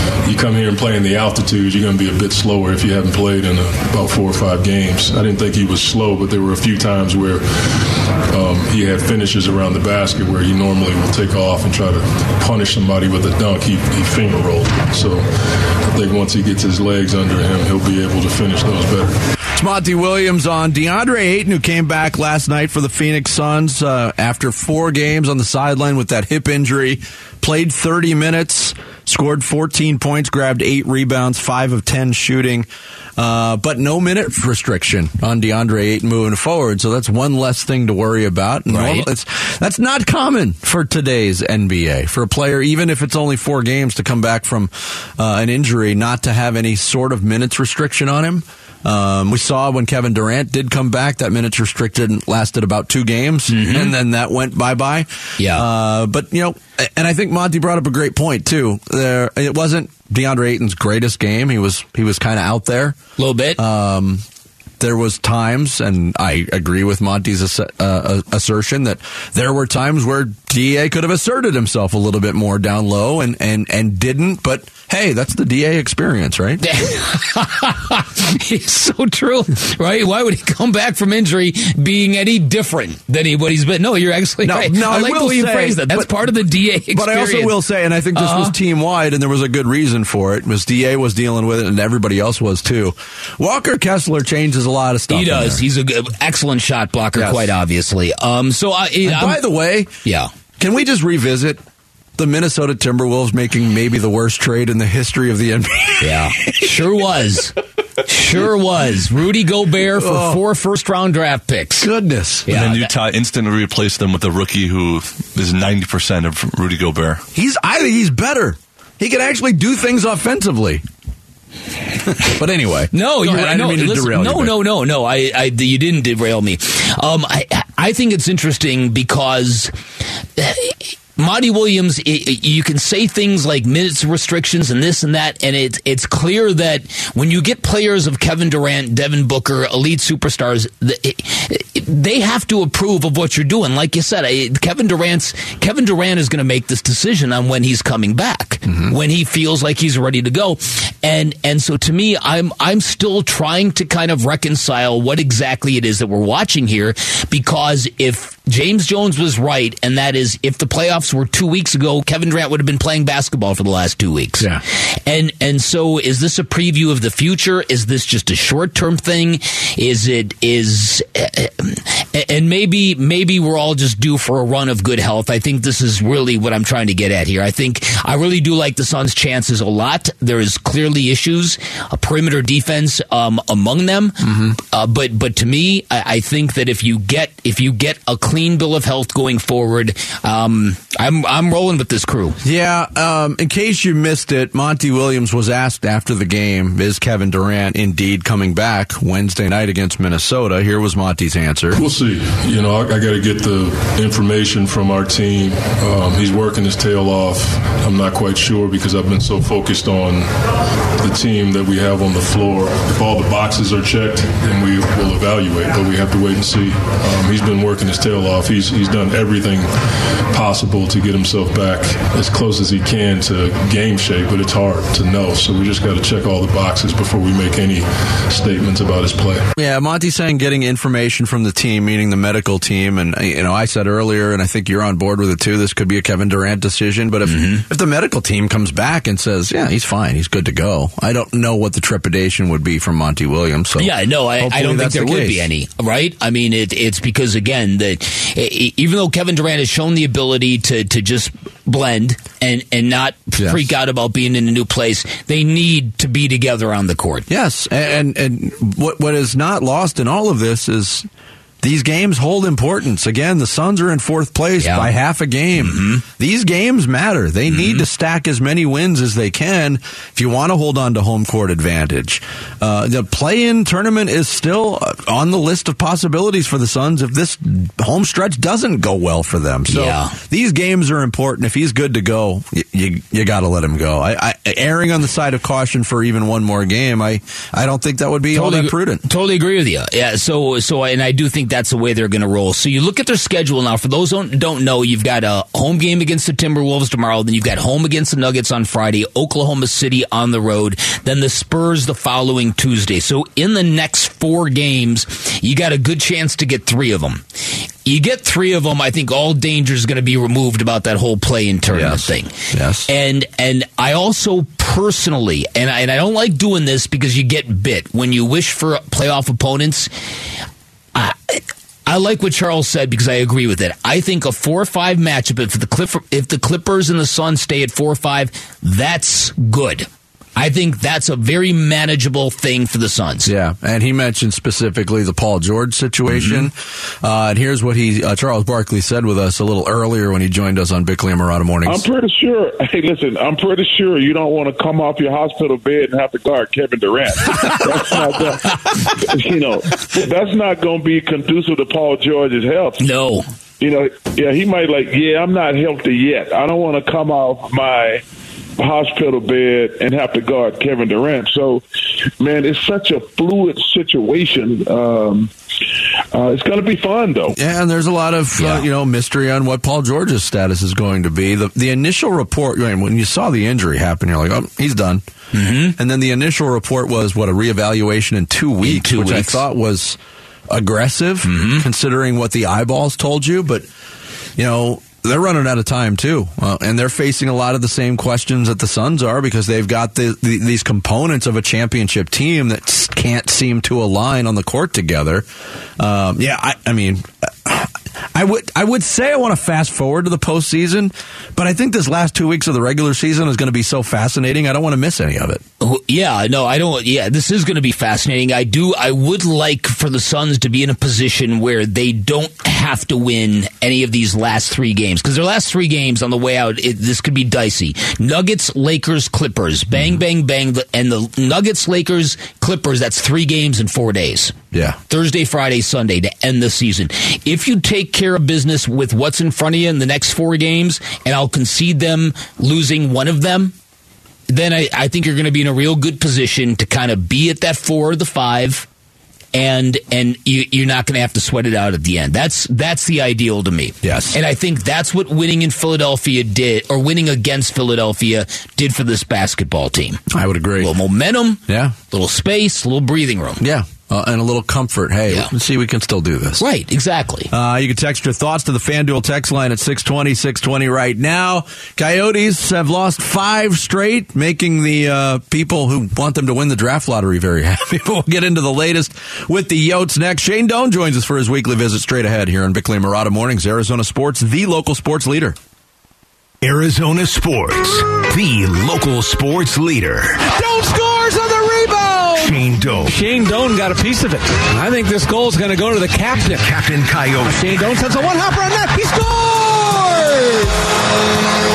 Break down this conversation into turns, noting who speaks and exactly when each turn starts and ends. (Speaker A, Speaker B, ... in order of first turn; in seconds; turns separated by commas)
Speaker A: 0.2-15.3, Speaker A: 15.9-19.1, Speaker B: 19.5-63.0, Speaker C: 38.7-39.1, Speaker C: 53.5-54.0, Speaker C: 55.4-55.6, Speaker C: 63.2-63.6, Speaker B: 63.6-64.2, Speaker B: 64.8-76.6, Speaker C: 76.6-87.5, Speaker B: 84.4-86.4, Speaker B: 86.9-95.6, Speaker C: 88.2-88.5, Speaker C: 95.1-99.4, Speaker B: 97.2-97.5, Speaker B: 99.0-99.9, Speaker B: 100.6-101.6, Speaker B: 102.2-106.6, Speaker C: 106.0-111.9, Speaker B: 109.9-110.4, Speaker B: 111.8-112.5, Speaker C: 112.5-112.9, Speaker D: 112.5-117.2, Speaker B: 117.3-120.8, Speaker B: 122.1-124.6, Speaker C: 122.9-129.7, Speaker C: 130.4-192.4, Speaker B: 184.2-184.6, Speaker B: 192.4-201.8, Speaker A: 201.7-210.3, Speaker A: 211.0-219.7, Speaker A: 220.3-229.4, Speaker B: 229.6-245.5, Speaker C: 237.3-237.6, Speaker C: 243.8-257.3, Speaker B: 257.3-261.1, Speaker B: 261.6-289.0, Speaker C: 264.6-264.9, Speaker C: 265.6-266.0, Speaker C: 267.5-267.8, Speaker C: 279.7-280.1, Speaker C: 288.3-307.2, Speaker C: 307.9-312.3, Speaker B: 311.7-312.9, Speaker C: 312.9-319.9, Speaker C: 320.9-333.3, Speaker B: 333.2-341.9, Speaker C: 336.1-336.4, Speaker E: 341.6-352.8, Speaker C: 352.8-353.2, Speaker E: 353.6-358.0, Speaker E: 358.6-361.6, Speaker E: 362.2-365.3, Speaker E: 366.1-367.4, Speaker B: 367.3-375.0, Speaker C: 368.4-368.6, Speaker C: 375.3-375.8, Speaker B: 375.8-383.7, Speaker C: 378.6-379.4, Speaker C: 381.2-381.6, Speaker B: 384.4-395.3, Speaker B: 395.8-405.4, Speaker C: 405.6-424.4, Speaker B: 424.5-424.8, Speaker C: 424.9-433.5, Speaker C: 434.3-438.7, Speaker C: 439.3-450.0, Speaker B: 443.8-444.2, Speaker B: 450.1-450.7, Speaker C: 450.6-453.4, Speaker B: 451.5-451.7, Speaker B: 453.4-456.4, Speaker C: 456.4-457.3, Speaker B: 457.3-475.4, Speaker F: 476.4-480.3, Speaker G: 480.2-486.4, Speaker F: 482.2-483.0, Speaker F: 486.3-487.6, Speaker G: 487.3-490.5